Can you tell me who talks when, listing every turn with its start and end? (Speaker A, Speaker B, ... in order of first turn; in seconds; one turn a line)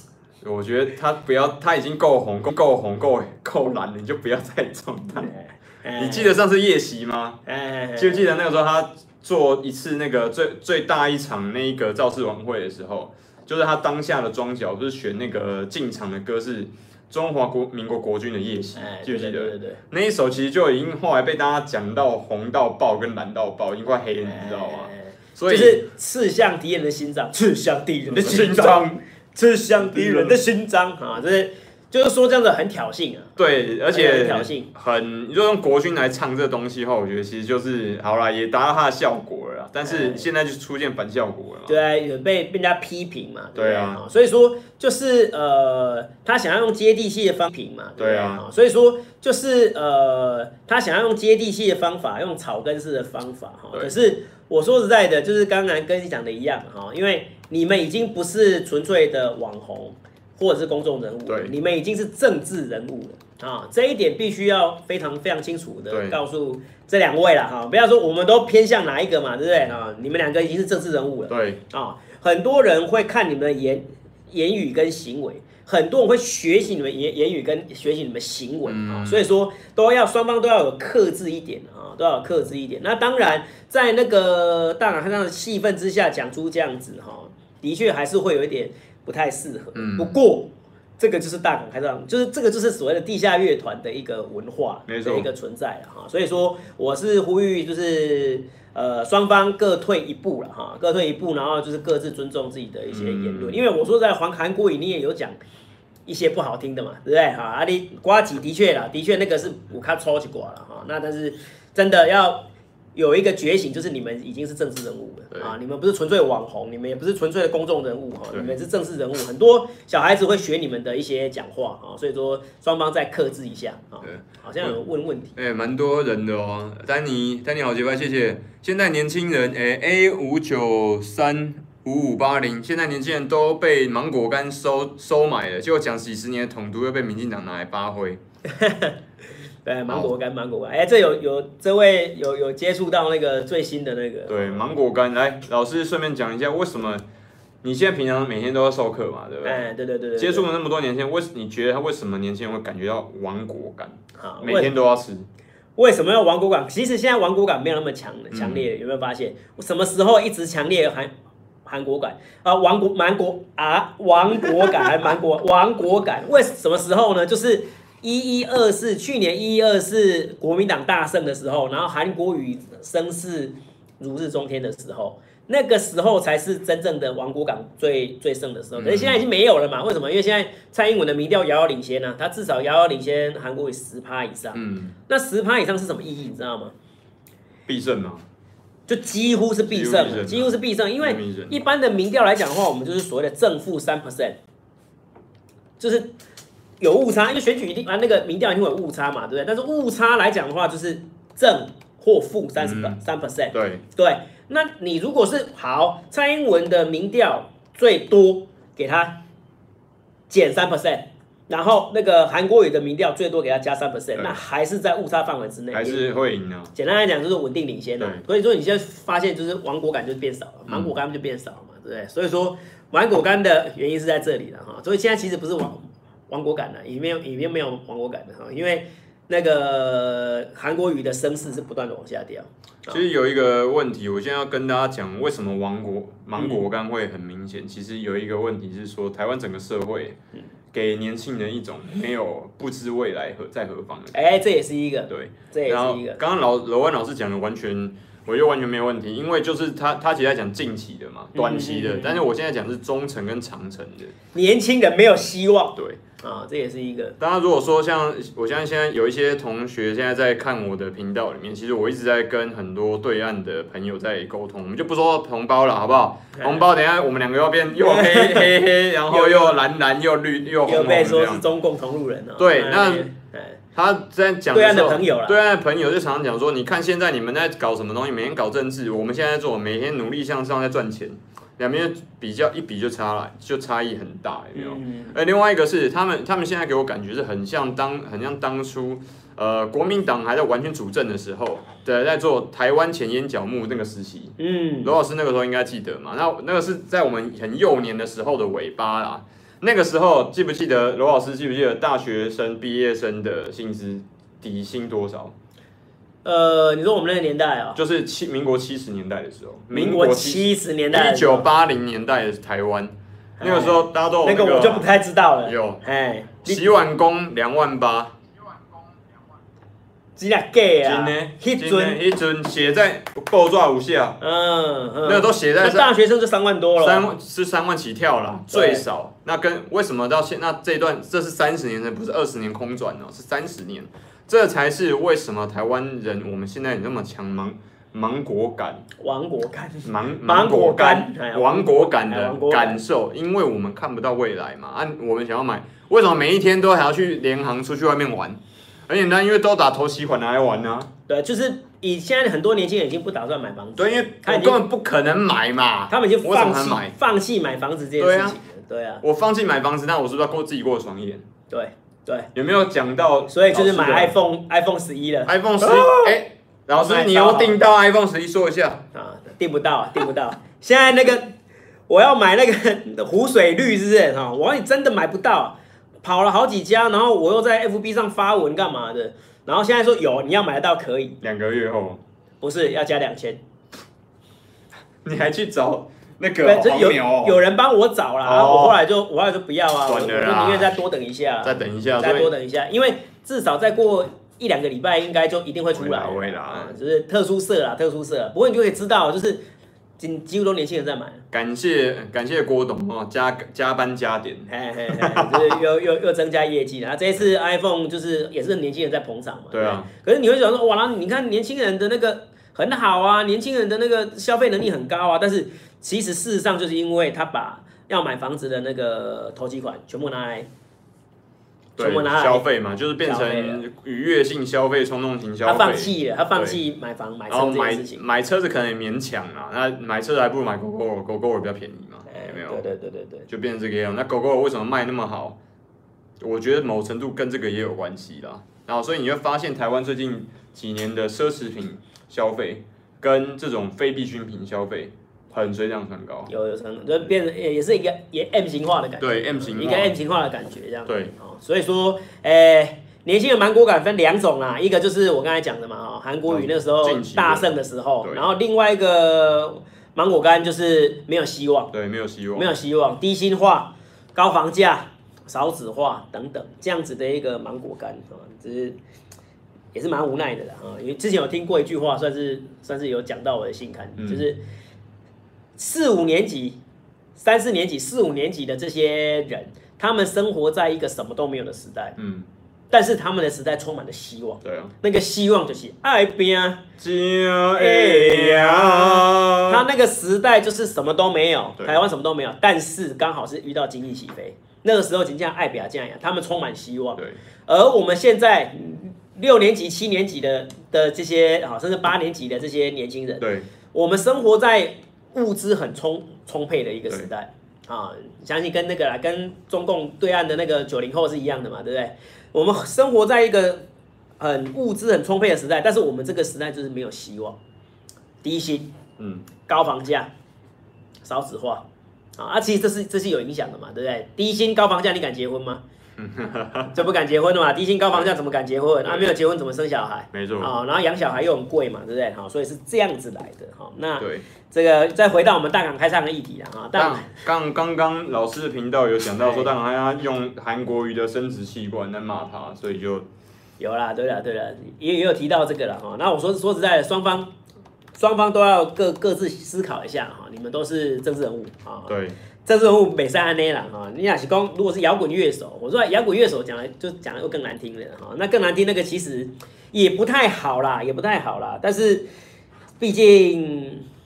Speaker A: 0.4-5.3
Speaker B: 5.2-6.4
Speaker A: 6.0-7.4
Speaker B: 7.5-8.3
Speaker A: 8.0-25.9
Speaker B: 18.8-19.8
Speaker B: 24.2-33.3
Speaker A: 28.1-29.0
Speaker A: 29.8-30.4
Speaker A: 33.4-41.8
Speaker B: 33.9-34.7
Speaker B: 39.9-40.3
Speaker B: 41.7-105.4
Speaker A: 43.5-44.0
Speaker A: 48.0-48.4
Speaker A: 61.3-61.5
Speaker A: 65.9-66.2
Speaker A: 71.3-71.6
Speaker A: 78.7-79.3
Speaker A: 89.8-90.2
Speaker A: 94.9-95.3
Speaker A: 102.9-103.6
Speaker B: 106.1-125.4
Speaker A: 118.3-118.6
Speaker A: 124.0-124.8
Speaker A: 125.4-138.2
Speaker B: 138.5-139.0
Speaker B: 139.7-144.7
Speaker A: 144.3-147.0
Speaker A: 147.6-149.6
Speaker B: 149.4-150.5
Speaker A: 150.2-155.3
Speaker B: 154.2-154.7
Speaker B: 155.8-161.1
Speaker A: 158.3-158.7
Speaker B: 161.7-186.7
Speaker A: 178.8-179.2
Speaker A: 184.5-185.0
Speaker A: 187.7-188.2
Speaker B: 188.9-194.4
Speaker A: 189.7-191.6
Speaker B: 195.8-196.1
Speaker B: 196.8-209.2
Speaker A: 202.6-203.0
Speaker A: 203.5-203.8
Speaker B: 210.3-216.0
Speaker A: 215.7-216.7
Speaker B: 216.7-233.0
Speaker A: 220.7-220.9
Speaker A: 232.9-240.2
Speaker B: 236.4-236.7
Speaker A: 240.7-244.2
Speaker B: 244.1-246.2
Speaker A: 245.1-254.2
Speaker B: 251.3-252.3
Speaker B: 254.3-257.2
Speaker A: 255.8-256.0
Speaker A: 257.2-271.4
Speaker B: 266.4-266.6
Speaker B: 267.8-268.6
Speaker B: 269.1-269.6
Speaker B: 270.7-273.6
Speaker A: 272.4-273.1
Speaker A: 273.8-305.4
Speaker B: 274.5-275.4
Speaker B: 284.6-285.2
Speaker B: 294.4-294.9
Speaker B: 306.2-307.8
Speaker A: 307.8-314.9
Speaker B: 309.7-311.5
Speaker B: 313.4-316.7
Speaker A: 315.4-315.8
Speaker A: 316.4-318.2
Speaker B: 320.2-322.0
Speaker A: 320.8-324.2
Speaker B: 324.2-327.1
Speaker A: 325.1-325.9
Speaker A: 326.8-338.9
Speaker B: 328.5-328.9
Speaker B: 339.0-342.8
Speaker A: 339.8-350.9
Speaker B: 351.1-354.6
Speaker A: 353.8-356.9
Speaker B: 355.9-359.0
Speaker A: 358.0-358.4
Speaker A: 359.0-361.2
Speaker B: 361.5-362.3
Speaker A: 362.4-364.2
Speaker B: 363.3-366.2
Speaker A: 365.3-368.9
Speaker B: 366.8-367.6
Speaker B: 368.9-371.4
Speaker B: 371.9-381.2
Speaker A: 381.2-382.0
Speaker B: 382.4-383.4
Speaker A: 385.0-387.4
Speaker B: 386.4-399.4
Speaker A: 388.2-388.8
Speaker A: 389.9-390.7
Speaker A: 391.4-392.3
Speaker A: 395.7-396.7
Speaker B: 400.0-401.2
Speaker A: 401.3-405.6
Speaker B: 404.5-420.5
Speaker A: 409.5-409.9
Speaker A: 421.8-426.6
Speaker B: 421.8-422.5
Speaker B: 423.0-423.6
Speaker B: 425.4-428.0
Speaker A: 427.3-432.6
Speaker B: 432.1-433.3
Speaker A: 433.3-435.4
Speaker A: 436.2-446.3
Speaker B: 446.3-461.7
Speaker A: 449.0-450.0
Speaker A: 450.9-451.1
Speaker A: 456.3-458.3
Speaker A: 461.7-462.6
Speaker B: 462.4-468.8
Speaker B: 469.7-474.4
Speaker A: 474.0-474.2
Speaker B: 475.6-476.6
Speaker B: 477.2-482.0
Speaker A: 482.0-482.3
Speaker B: 482.7-486.6
Speaker A: 484.4-484.7
Speaker A: 486.8-489.7
Speaker B: 487.6-513.6
Speaker A: 491.6-491.8
Speaker A: 503.2-503.5
Speaker B: 514.2-517.4
Speaker B: 518.2-518.7
Speaker A: 519.0-519.3
Speaker B: 519.5-520.1
Speaker B: 521.0-521.7
Speaker B: 522.2-525.6
Speaker A: 526.0-526.9
Speaker B: 526.7-537.1
Speaker A: 528.9-529.1
Speaker A: 530.1-530.5
Speaker A: 534.0-534.3
Speaker A: 536.8-543.1
Speaker B: 539.2-539.5
Speaker B: 543.6-547.3
Speaker B: 548.0-551.9
Speaker A: 551.9-552.2
Speaker B: 552.5-562.1
Speaker B: 562.8-563.9